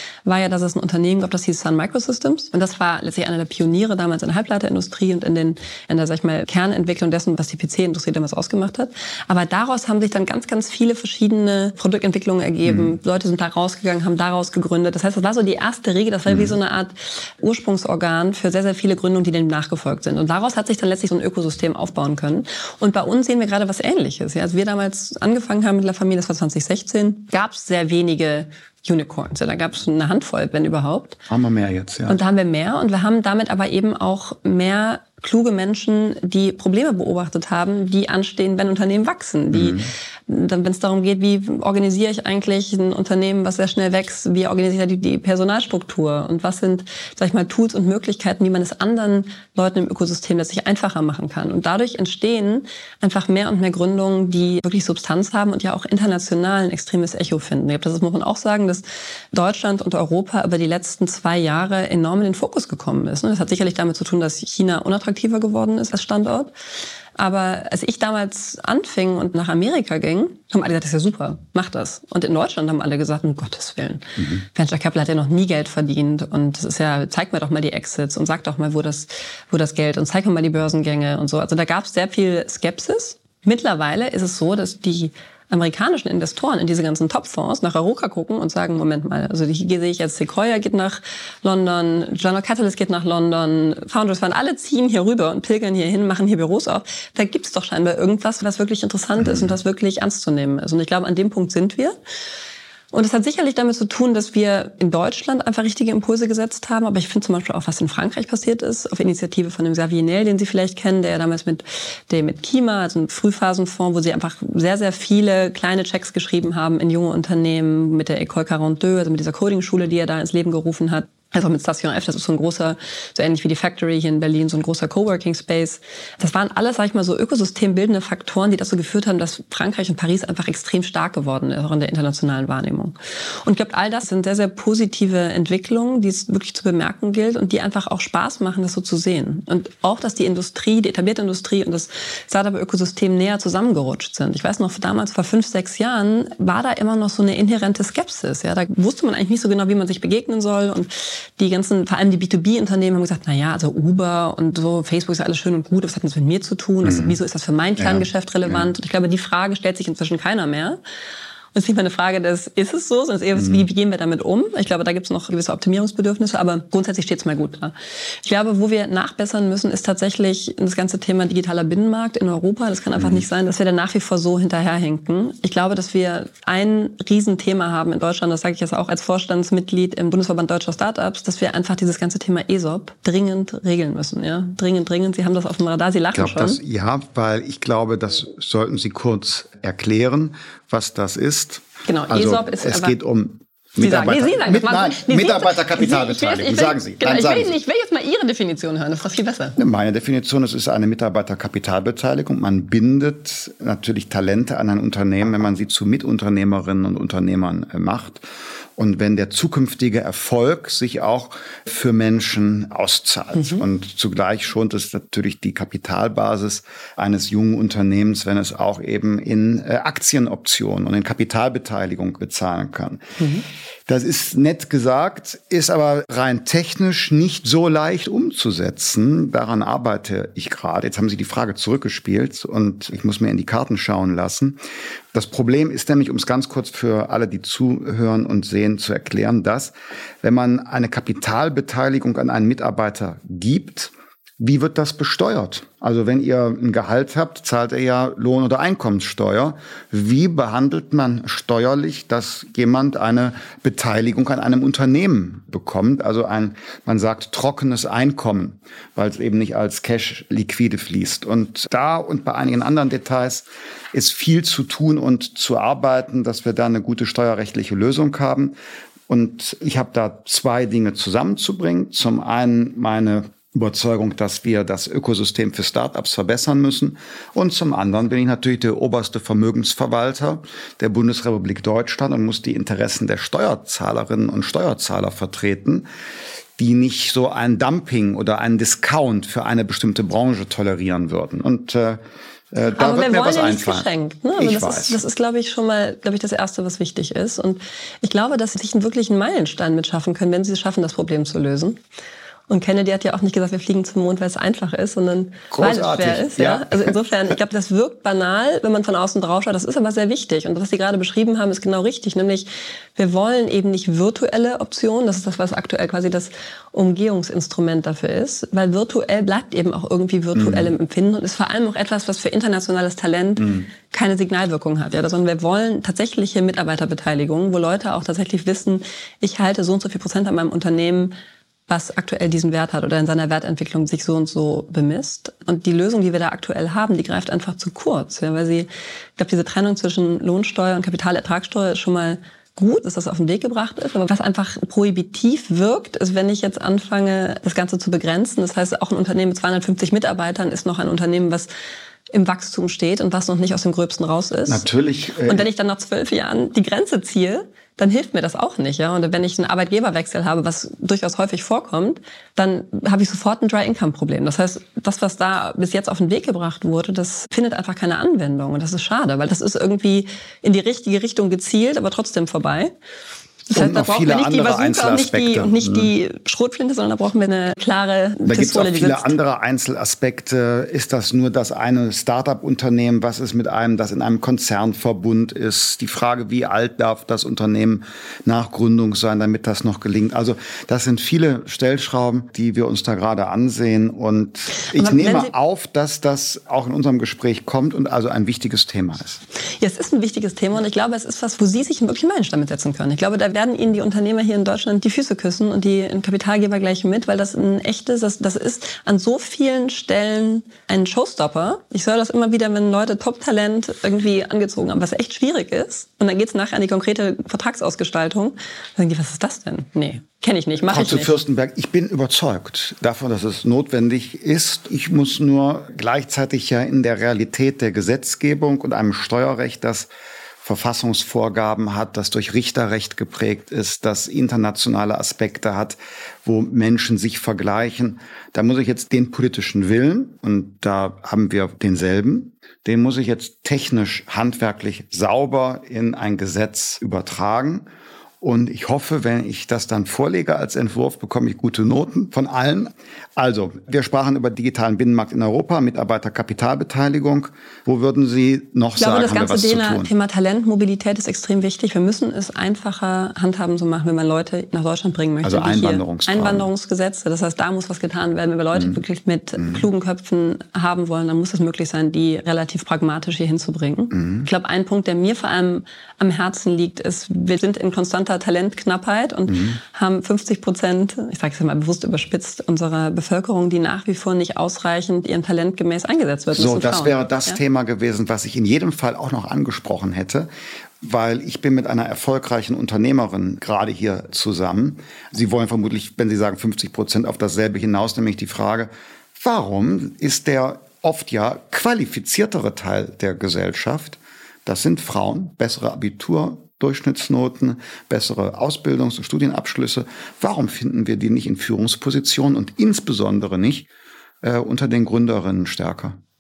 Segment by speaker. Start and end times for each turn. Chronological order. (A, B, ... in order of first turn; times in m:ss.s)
0:00.3-0:31.2 A
0:12.6-0:12.9 B
0:16.3-0:16.5 B
0:31.3-0:32.2 B
0:32.1-1:06.5 A
0:39.5-0:39.9 B
1:07.2-1:42.0 A
1:39.2-1:39.5 B
1:42.9-2:40.8 A
2:36.8-2:37.2 B
2:37.8-2:38.7 B
2:41.5-3:06.6 A
2:43.4-2:43.7 B
2:53.0-2:53.3 B
3:06.1-3:17.6 B
3:11.9-3:13.0 A
3:13.8-3:19.6 A
3:19.6-3:28.2 B
3:28.8-3:43.2 B
3:33.4-3:33.6 A
3:43.2-3:43.4 A
3:43.9-3:54.6 B
3:55.1-4:28.5 B
4:29.1-4:45.9 B
4:46.6-4:52.0 B
4:52.5-4:55.0 B
4:52.7-5:01.8 A
5:02.5-5:31.1 A
5:05.5-5:06.9 B
5:20.4-5:20.7 B
5:31.7-5:51.5 A
5:52.1-5:54.6 A
5:54.5-5:55.5 B
5:55.2-6:12.7 A
6:13.5-6:19.2 A
6:13.5-6:15.9 B
6:18.2-6:39.2 B
6:34.6-6:35.3 A
6:39.6-7:01.1 A
7:00.7-7:09.9 B
7:10.4-7:27.7 B
7:28.2-7:39.9 B
7:38.8-8:07.4 A
7:45.2-7:46.5 B
7:53.9-7:54.3 B
7:59.3-7:59.6 B
8:06.3-8:10.3 B
8:10.8-8:33.7 B
8:34.2-8:36.0 B